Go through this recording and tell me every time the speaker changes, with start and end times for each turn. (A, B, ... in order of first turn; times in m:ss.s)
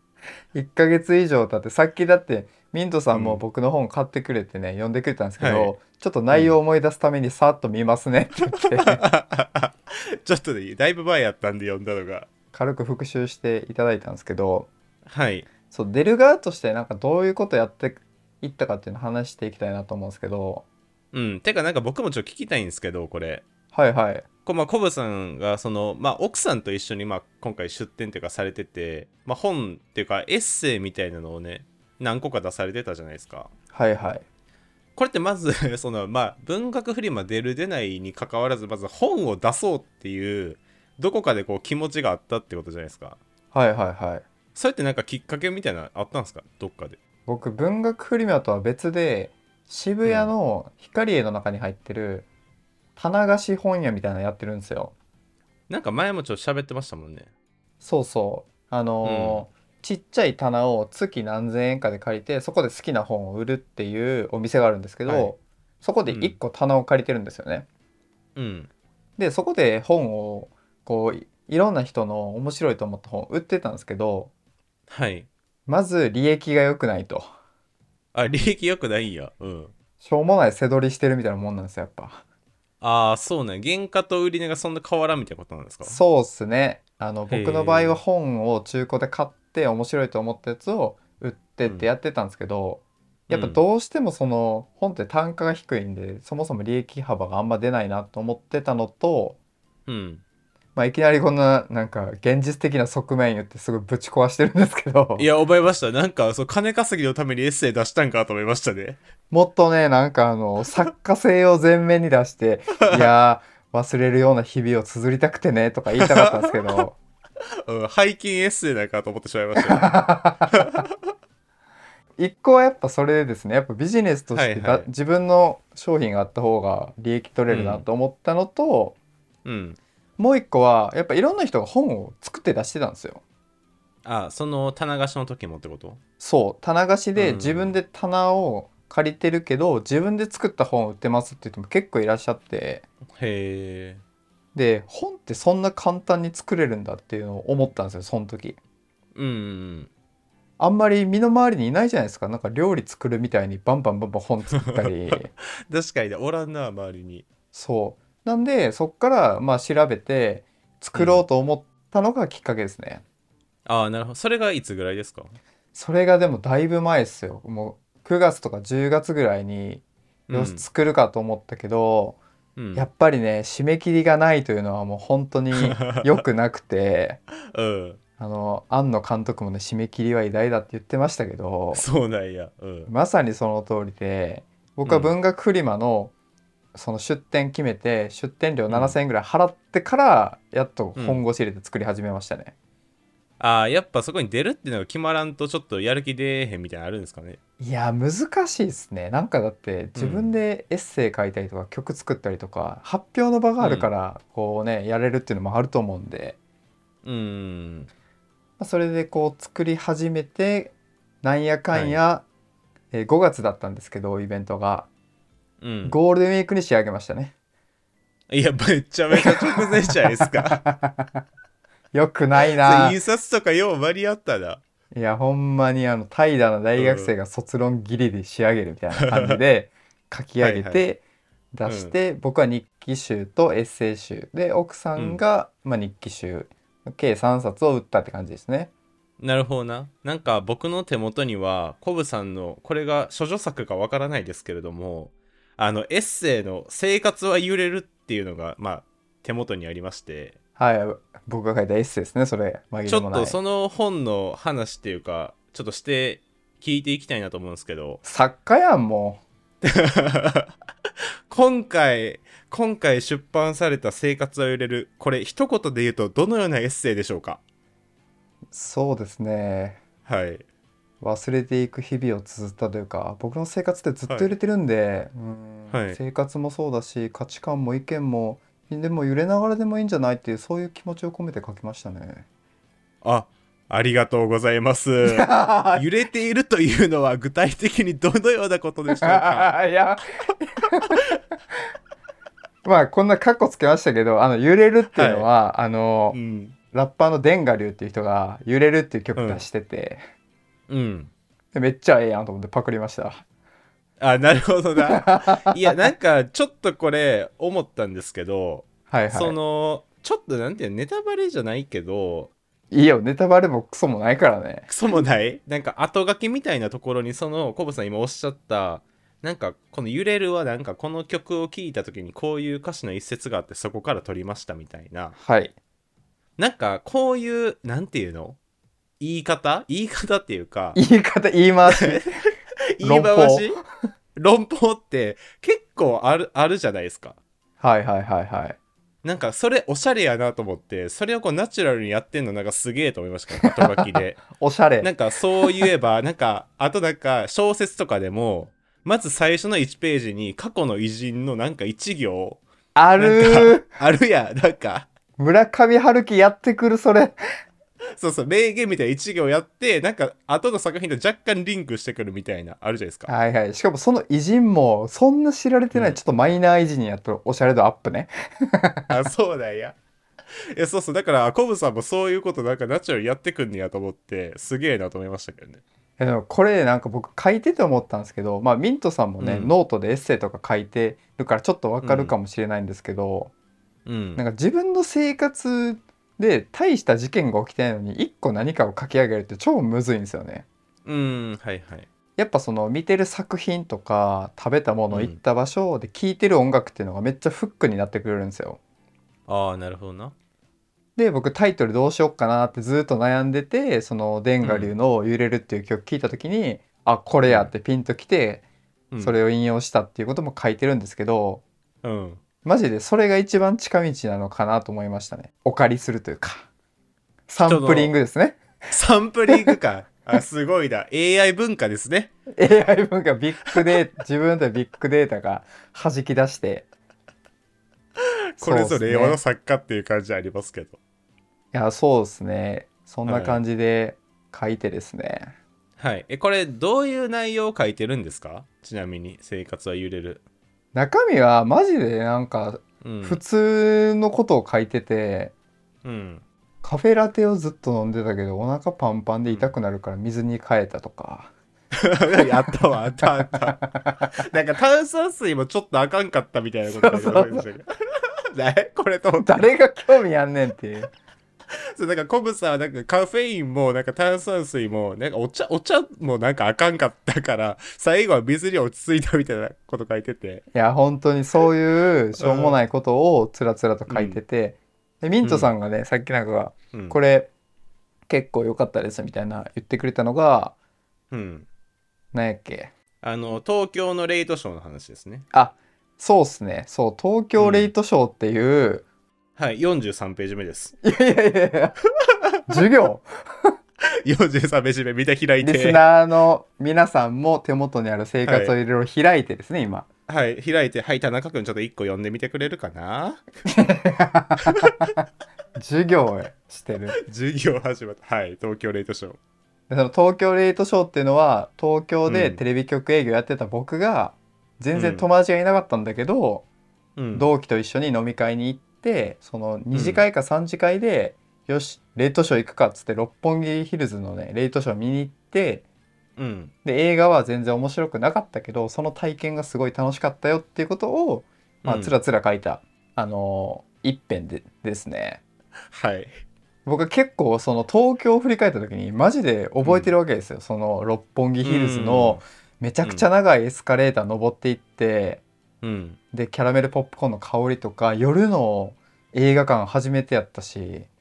0:00.5-0:09.0 A
0:03.1-0:03.4 B
0:05.4-0:05.8 B
0:06.3-0:06.6 B
0:08.6-0:12.3 B
0:12.5-0:14.7 A
0:15.1-0:15.5 B
0:15.7-0:20.6 A
0:21.1-0:23.5 B
0:23.7-0:24.3 A
0:24.4-0:33.5 B
0:33.7-0:34.2 A
0:35.0-0:43.2 B
0:43.5-0:44.2 A
0:44.6-0:47.0 B
0:47.3-0:52.3 A
0:50.0-0:50.3 B
0:53.0-0:54.9 A
0:55.7-0:57.3 B
0:57.8-1:07.7 A
0:59.0-0:59.4 B
1:05.1-1:05.3 B
1:06.1-1:06.4 B
1:08.4-1:08.7 B
1:09.2-1:14.3 A
1:14.9-1:15.3 B
1:15.7-1:17.2 A
1:18.1-1:19.7 B
1:20.0-1:22.2 A
1:22.8-1:26.0 B
1:25.8-1:39.4 A
1:27.3-1:28.0 B
1:33.3-1:33.6 B
1:39.9-1:40.2 B
1:40.8-1:45.3 A
1:45.2-1:49.0 B
1:49.3-1:57.0 A
1:56.0-1:56.8 B
1:57.7-2:00.0 B
1:59.6-2:00.8 A
2:00.5-2:00.9 B
2:02.2-2:09.0 A
2:04.3-2:04.9 B
2:07.5-2:07.8 B
2:09.4-2:09.8 B
2:10.2-2:13.2 A
2:14.0-2:16.0 B
2:16.2-2:22.8 A
2:17.2-2:17.8 B
2:23.2-2:24.0 B
2:24.6-2:28.6 A
2:29.2-2:29.9 B
2:30.6-2:35.3 A
2:34.7-2:37.3 B
2:37.5-2:43.0 A
2:41.0-2:41.2 B
2:43.7-2:45.4 B
2:45.7-2:52.2 A
2:50.3-2:50.6 B
2:52.6-2:52.9 B
2:52.7-2:57.2 A
2:55.6-2:56.2 B
2:57.5-2:58.0 B
2:58.2-3:01.8 A
3:01.7-3:02.9 B
3:02.9-3:06.1 A
3:04.9-3:05.1 B
3:06.8-3:12.5 A
3:08.7-3:09.0 B
3:11.0-3:11.2 B
3:13.4-3:17.4 B
3:17.6-3:26.4 A
3:20.0-3:20.4 B
3:23.6-3:23.9 B
3:27.0-3:27.9 B
3:28.6-3:32.2 A
3:31.7-3:32.0 B
3:32.9-3:34.9 A
3:35.6-3:36.0 B
3:35.8-3:37.3 A
3:38.3-3:40.6 B
3:39.1-3:41.2 A
3:41.9-3:43.0 A
3:42.6-3:44.6 B
3:44.9-3:51.0 A
3:46.8-3:47.1 B
3:49.0-3:49.4 B
3:50.4-3:50.8 B
3:51.5-3:58.7 A
3:51.7-3:51.9 B
3:55.0-3:55.2 B
3:59.2-4:10.4 B
4:10.6-4:13.4 A
4:12.9-4:18.0 B
4:18.0-4:19.2 A
4:19.6-4:20.5 B
4:21.3-4:27.4 B
4:28.5-4:29.8 A
4:30.1-4:30.4 B
4:31.0-4:42.2 A
4:35.7-4:36.0 B
4:43.0-4:49.5 B
4:45.0-4:45.9 A
4:48.9-4:51.1 A
4:52.6-4:56.2 A
4:54.9-4:55.3 B
4:56.1-4:56.6 B
4:56.7-5:00.0 A
4:59.2-4:59.4 B
5:00.7-5:01.1 B
5:01.5-5:03.2 A
5:04.0-5:12.3 B
5:04.9-5:05.8 A
5:08.9-5:09.4 A
5:12.7-5:14.7 A
5:14.7-5:25.2 B
5:25.2-5:25.5 A
5:26.4-5:28.4 B
5:29.0-5:30.8 B
5:30.8-5:32.2 A
5:31.7-5:32.1 B
5:32.8-5:33.6 B
5:32.8-5:33.6 A
5:34.2-5:37.2 B
5:37.6-5:38.6 A
5:39.0-5:44.2 B
5:43.4-5:45.7 A
5:44.8-5:52.4 B
5:52.8-5:53.8 A
5:53.0-5:54.9 B
5:55.2-5:57.2 A
5:57.9-6:03.1 B
6:03.1-6:09.0 A
6:08.9-6:09.8 B
6:10.6-6:15.6 B
6:16.0-6:23.3 A
6:19.2-6:19.5 B
6:21.8-6:22.2 B
6:23.9-6:24.2 B
6:24.2-6:30.5 A
6:30.8-6:31.9 B
6:32.2-6:38.6 A
6:34.9-6:35.2 B
6:39.3-6:40.2 B
6:41.0-6:48.4 A
6:44.4-6:44.7 B
6:47.3-6:47.5 B
6:48.9-6:49.2 B
6:49.0-6:51.4 A
6:51.8-6:52.2 B
6:52.4-6:56.5 A
6:57.3-6:58.4 A
6:57.4-6:58.0 B
6:58.7-7:02.1 B
6:59.3-6:59.6 A
7:02.4-7:06.7 A
7:08.0-7:10.8 B
7:08.4-7:09.2 A
7:11.5-7:15.3 A
7:13.1-7:13.4 B
7:15.8-7:20.2 B
7:20.7-7:25.3 A
7:22.8-7:23.2 B
7:25.8-7:26.2 B
7:26.6-7:31.3 A
7:29.3-7:29.5 B
7:31.8-7:37.7 B
7:32.1-7:34.2 A
7:36.7-7:37.5 A
7:38.3-7:39.5 B
7:39.2-7:40.9 A
7:41.7-7:50.4 B
7:50.5-7:57.3 A
7:52.2-7:52.6 B
7:53.9-7:54.2 B
7:55.2-7:55.5 B
7:56.7-7:57.0 B
7:58.1-8:00.6 A
8:01.1-8:01.5 B
8:02.1-8:02.7 A
8:03.0-8:05.3 B
8:05.3-8:08.9 A
8:07.4-8:07.7 B
8:09.4-8:10.7 B
8:10.8-8:11.8 A
8:12.5-8:13.5 A
8:14.0-8:15.8 B
8:15.4-8:19.9 A
8:18.2-8:18.6 B
8:20.1-8:23.2 B
8:23.5-8:25.0 A
8:24.5-8:24.9 B
8:25.6-8:27.0 A
8:27.0-8:29.2 B
8:29.7-8:36.5 A
8:32.1-8:32.4 B
8:34.7-8:35.1 B
8:37.0-8:37.3 B
8:37.1-8:45.6 A
8:39.7-8:40.0 B
8:46.2-8:46.5 B
8:46.6-8:55.2 A
8:51.6-8:52.0 B
8:55.7-8:56.2 B
8:56.7-9:05.2 A
8:59.6-9:00.0 B
9:01.4-9:02.2 B
9:05.6-9:06.0 B
9:06.1-9:10.9 A